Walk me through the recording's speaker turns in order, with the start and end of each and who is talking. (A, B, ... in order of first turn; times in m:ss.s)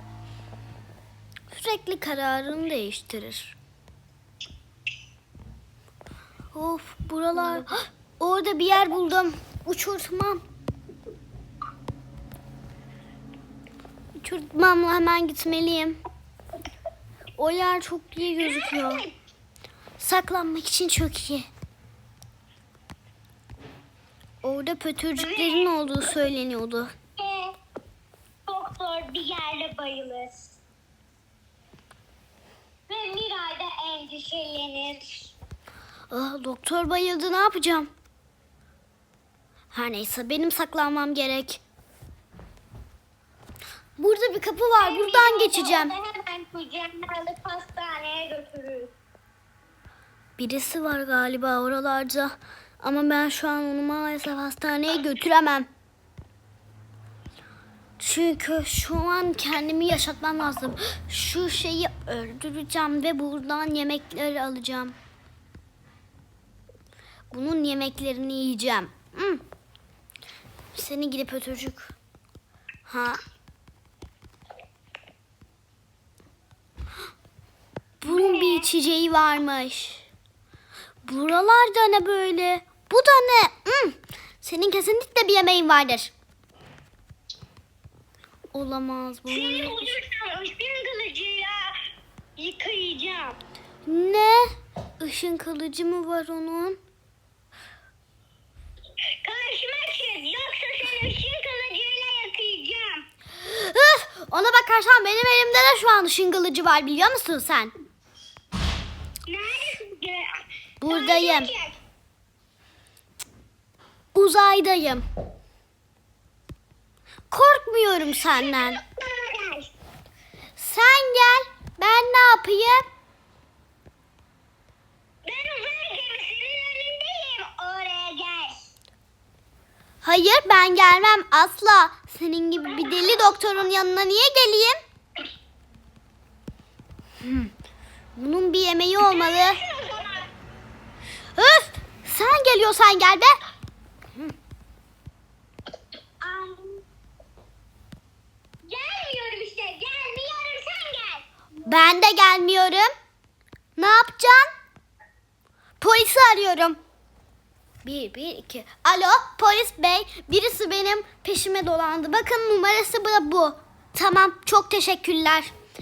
0:01.5-0:03.6 A
0:06.5-0:10.4 A
0:14.2-0:16.0 A
0:17.4-0:19.0 A
0:18.4-0:19.1 B
0:20.0-0:21.5 A
0:24.4-0:26.9 A
0:25.2-0:25.9 B
0:27.2-0:27.5 B
0:28.5-0:30.6 B
0:32.9-0:35.3 B
0:36.1-0:37.9 A
0:39.7-0:41.6 A
0:44.0-0:45.9 A
0:44.8-0:48.9 B
0:50.4-0:55.7 A
0:58.0-1:04.9 A
1:07.3-1:09.4 A
1:10.7-1:11.9 A
1:12.9-1:13.2 A
1:18.0-1:20.1 A
1:18.0-1:18.6 B
1:21.0-1:26.1 A
1:28.5-1:30.0 A
1:29.3-1:31.8 B
1:32.4-1:33.4 B
1:33.9-1:36.8 A
1:39.2-1:43.0 B
1:43.4-1:47.7 A
1:49.2-1:51.8 B
1:50.8-1:51.5 A
1:54.1-1:55.0 A
1:57.3-1:58.8 A
1:58.3-1:59.7 B
2:00.6-2:02.8 A
2:05.2-2:08.7 B
2:10.0-2:14.8 A
2:17.2-2:17.5 A
2:18.2-2:19.6 A
2:19.0-2:20.3 B
2:21.4-2:23.3 A
2:26.2-2:26.8 B
2:28.6-2:31.2 B
2:31.6-2:32.9 A
2:33.8-2:34.5 A
2:35.8-2:36.8 A
2:37.8-2:45.5 A